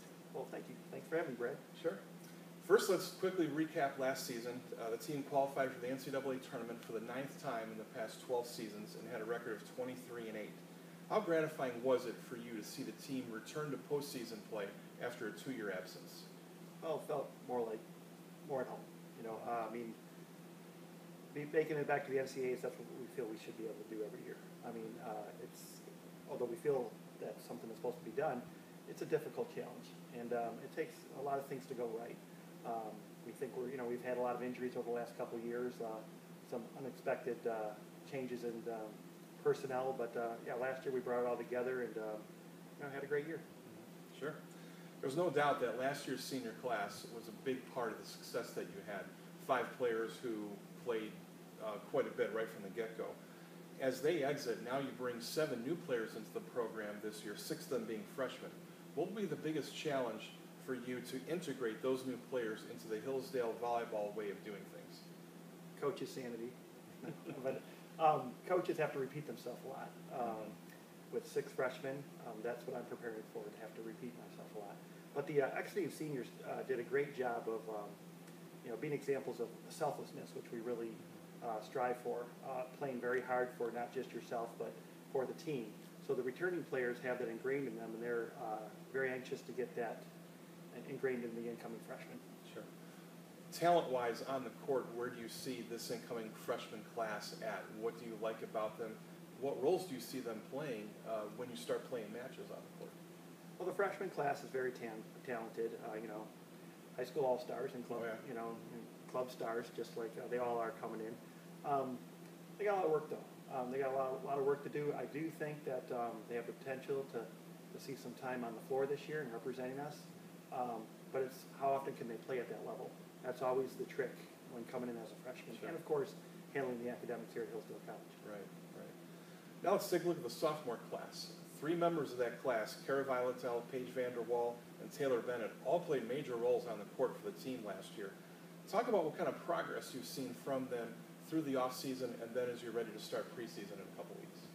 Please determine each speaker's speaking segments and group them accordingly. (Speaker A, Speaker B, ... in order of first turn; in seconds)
Speaker A: 0.3-1.6, 16.8-17.8, 18.4-19.9, 21.3-42.2, 42.8-43.4, 65.8-70.6, 71.1-77.9, 78.6-90.0, 90.7-92.2, 103.6-106.3, 107.0-112.0, 112.6-128.2
Speaker B: 1.7-2.0, 2.6-16.2, 43.7-44.4, 45.0-53.1, 53.8-65.0, 93.5-102.9, 107.9-108.2, 128.2-128.9, 129.6-138.1, 138.7-144.5